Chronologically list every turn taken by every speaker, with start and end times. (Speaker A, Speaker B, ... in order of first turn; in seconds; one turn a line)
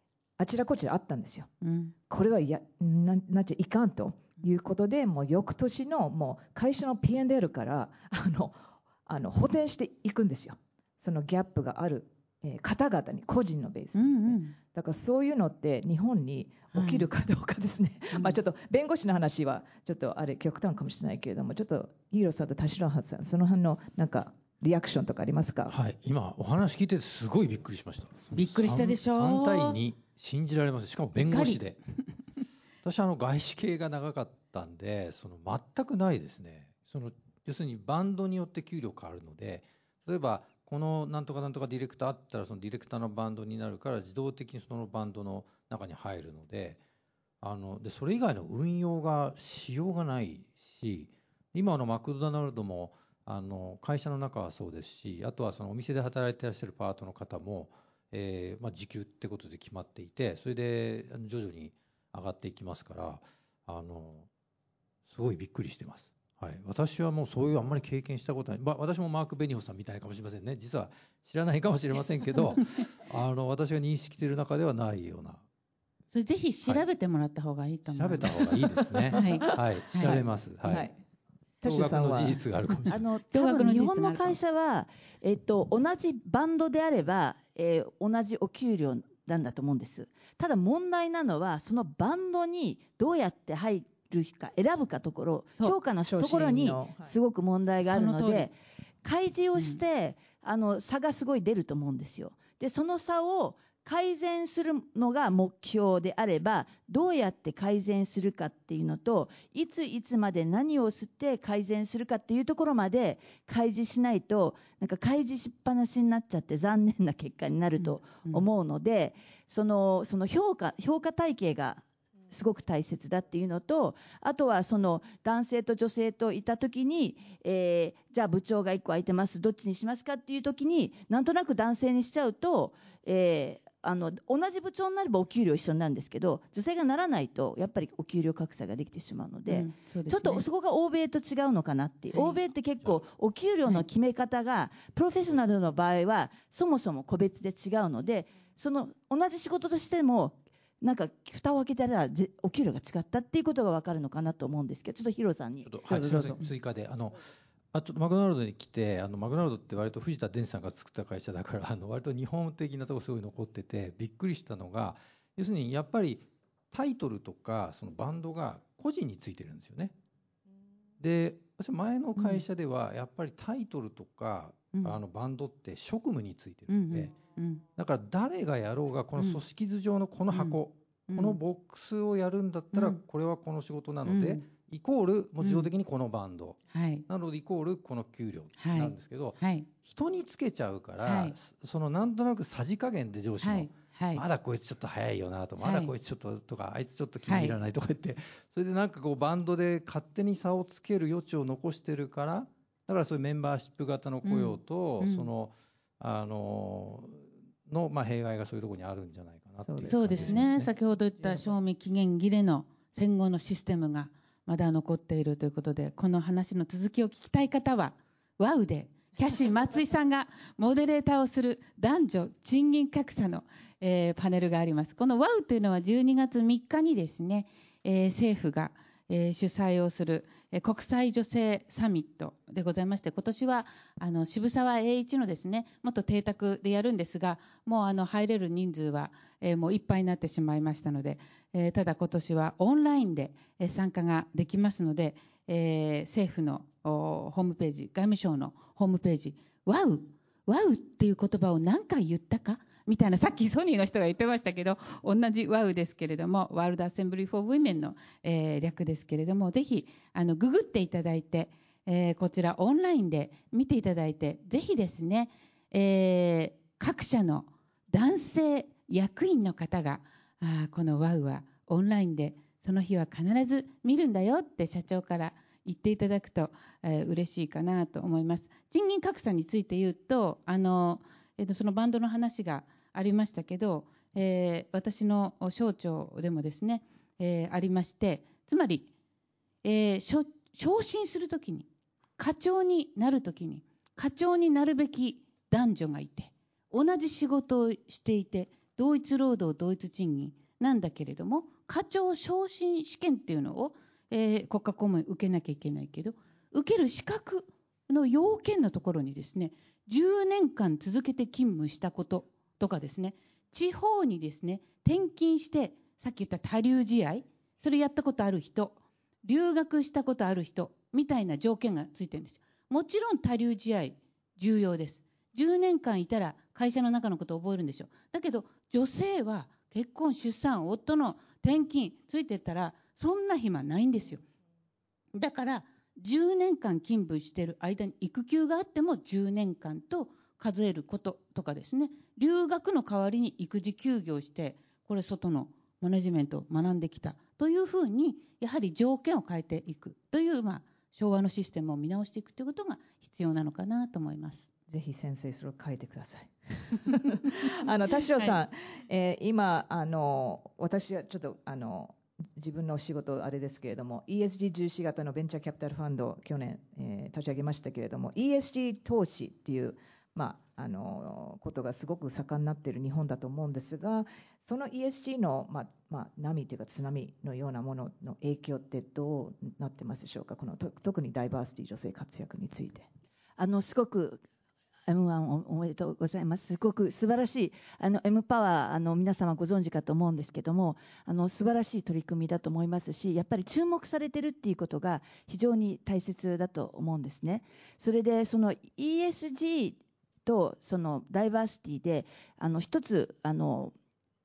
Speaker A: 0.4-1.5
Speaker B: 1.6-1.9
Speaker A: 2.1-25.8
Speaker B: 13.9-14.6
Speaker B: 16.7-17.1
Speaker B: 18.1-18.4
Speaker C: 25.7-31.8
Speaker B: 28.3-29.8
Speaker B: 31.3-31.6
Speaker C: 32.8-46.8
Speaker C: 47.4-64.3
Speaker C: 65.1-75.4
Speaker B: 76.1-78.4
Speaker C: 77.9-80.9
Speaker A: 78.7-81.0
Speaker B: 79.1-80.2
Speaker A: 81.6-82.4
Speaker C: 81.6-83.0
Speaker B: 82.8-84.4
Speaker D: 82.9-155.7
Speaker A: 96.0-97.2
Speaker B: 97.8-98.5
Speaker B: 117.8-118.5
Speaker B: 139.5-140.4
Speaker B: 142.1-142.4
Speaker C: 155.6-157.2
Speaker B: 155.9-156.5
Speaker C: 157.7-169.9
Speaker C: 171.0-177.2
Speaker B: 172.2-172.4
Speaker B: 176.7-177.6
Speaker C: 177.8-210.7
Speaker B: 180.3-181.4
Speaker B: 182.7-183.0
Speaker B: 184.1-184.4
Speaker B: 185.4-185.7
Speaker B: 186.7-187.1
Speaker B: 188.6-189.7
Speaker B: 191.0-191.4
Speaker B: 193.4-194.2
Speaker B: 195.6-195.9
Speaker B: 197.3-197.6
Speaker B: 204.2-205.3
Speaker A: 209.6-211.6
Speaker B: 209.8-288.9
Speaker B: 289.6-334.2
Speaker B: 335.1-354.5
Speaker A: 354.7-382.9
Speaker B: 358.1-358.4
Speaker D: 383.4-384.2
Speaker D: 384.9-403.7